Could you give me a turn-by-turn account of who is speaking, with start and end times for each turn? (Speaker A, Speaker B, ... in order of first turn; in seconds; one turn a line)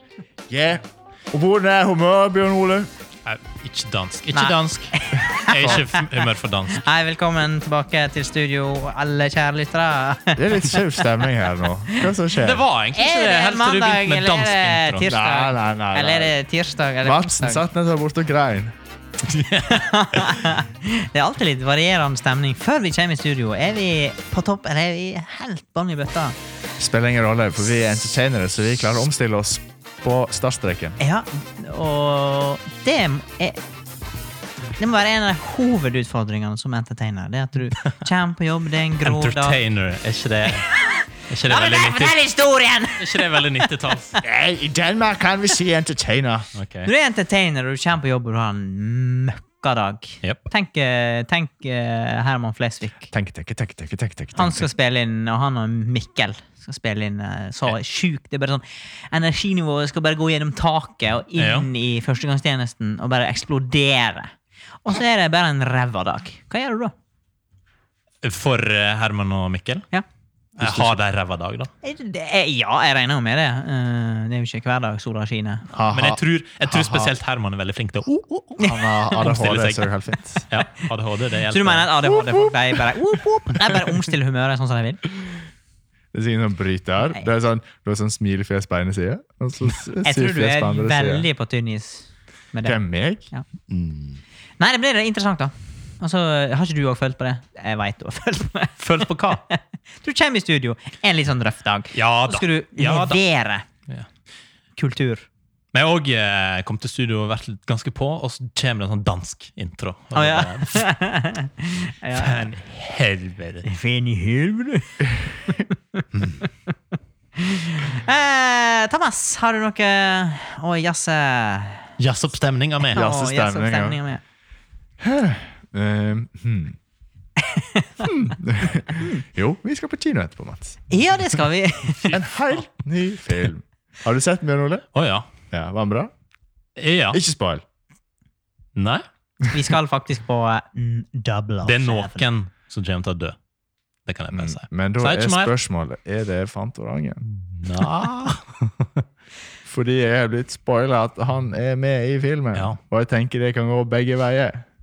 Speaker A: 0.5-2.9
Speaker B: 3.2-6.8
Speaker C: 4.3-11.2
Speaker A: 10.3-12.6
Speaker B: 12.3-15.1
Speaker C: 12.9-17.6
Speaker A: 15.1-16.3
Speaker A: 17.0-18.7
Speaker B: 19.3-20.3
Speaker C: 19.6-26.4
Speaker A: 26.8-31.0
Speaker C: 31.0-33.6
Speaker C: 34.8-39.6
Speaker B: 39.0-40.7
Speaker C: 40.5-43.7
Speaker B: 41.3-42.2
Speaker B: 43.0-44.2
Speaker A: 44.2-46.5
Speaker B: 46.5-46.9
Speaker C: 46.8-53.1
Speaker A: 53.1-54.7
Speaker C: 54.3-64.3
Speaker B: 61.4-61.7
Speaker C: 64.8-66.9
Speaker B: 68.2-69.9
Speaker A: 70.6-71.0
Speaker B: 70.6-71.7
Speaker C: 71.8-75.7
Speaker A: 75.7-77.1
Speaker B: 75.8-79.8
Speaker C: 78.6-79.1
Speaker A: 78.6-80.5
Speaker B: 80.5-81.9
Speaker C: 81.5-85.0
Speaker A: 82.2-82.5
Speaker A: 86.1-91.2
Speaker C: 90.0-92.8
Speaker A: 92.6-93.3
Speaker B: 93.7-94.2
Speaker C: 94.6-103.7
Speaker B: 98.8-99.4
Speaker B: 101.9-103.2
Speaker C: 104.8-105.2
Speaker B: 105.7-110.8
Speaker C: 110.1-112.5
Speaker B: 112.1-113.7
Speaker C: 113.7-116.0
Speaker C: 117.3-121.9
Speaker B: 122.0-123.0
Speaker C: 122.9-124.2
Speaker A: 122.9-124.0
Speaker A: 125.0-126.8
Speaker C: 127.4-128.1
Speaker A: 128.0-130.8
Speaker C: 128.9-129.2
Speaker C: 130.9-132.1
Speaker A: 132.1-134.8
Speaker B: 134.9-135.2
Speaker A: 135.5-136.1
Speaker B: 136.8-137.2
Speaker A: 137.1-137.6
Speaker B: 138.8-139.0
Speaker C: 139.5-142.2
Speaker B: 141.6-143.3
Speaker B: 144.1-145.5
Speaker A: 144.3-147.2
Speaker B: 147.5-149.0
Speaker A: 149.6-154.7